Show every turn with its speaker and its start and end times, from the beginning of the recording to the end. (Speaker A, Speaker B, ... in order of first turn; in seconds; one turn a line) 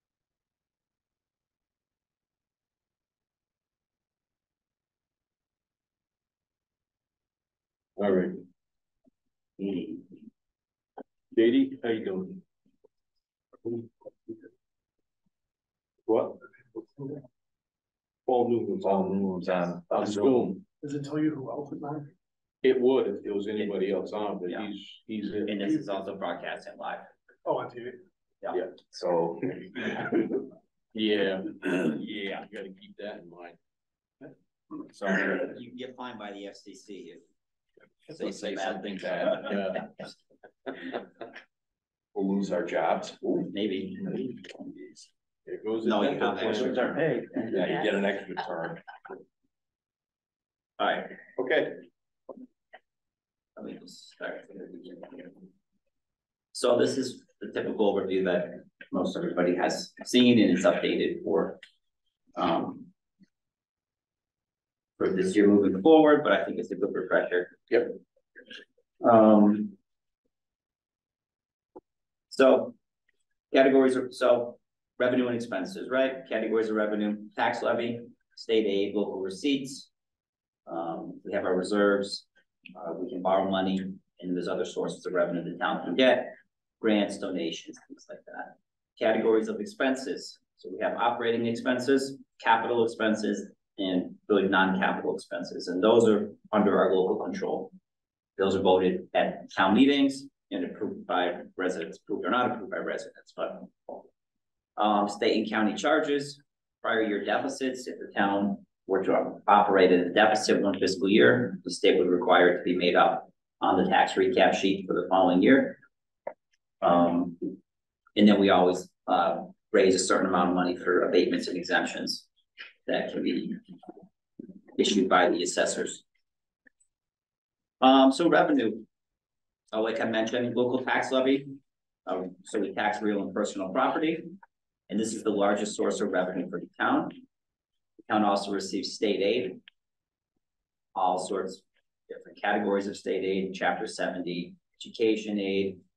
Speaker A: 8.0-8.4
Speaker A: 9.6-9.9
Speaker A: 11.3-12.4
Speaker A: 16.1-16.4
Speaker A: 18.3-20.6
Speaker B: 18.9-20.5
Speaker C: 20.8-22.1
Speaker A: 22.6-25.6
Speaker D: 25.4-27.1
Speaker C: 27.4-28.0
Speaker B: 28.9-29.9
Speaker A: 30.9-31.8
Speaker B: 31.6-32.5
Speaker A: 32.4-33.6
Speaker B: 34.9-35.5
Speaker D: 35.3-37.2
Speaker B: 38.1-39.8
Speaker D: 38.1-39.6
Speaker A: 39.5-39.8
Speaker B: 42.1-43.5
Speaker D: 43.5-44.4
Speaker A: 45.5-47.5
Speaker D: 45.8-47.0
Speaker B: 47.5-48.8
Speaker D: 50.8-51.1
Speaker A: 51.4-51.8
Speaker D: 53.5-55.3
Speaker D: 56.5-61.6
Speaker D: 62.4-62.9
Speaker D: 65.0-67.6
Speaker D: 69.0-69.7
Speaker D: 72.3-72.7
Speaker D: 73.5-79.9
Speaker D: 80.7-97.7
Speaker D: 98.4-103.9
Speaker D: 104.8-115.8
Speaker D: 116.8-117.5
Speaker D: 118.2-122.2
Speaker D: 122.8-123.6
Speaker D: 124.8-126.0
Speaker D: 127.8-128.8
Speaker D: 129.7-134.3
Speaker D: 134.9-137.2
Speaker D: 138.1-139.6
Speaker D: 140.9-145.8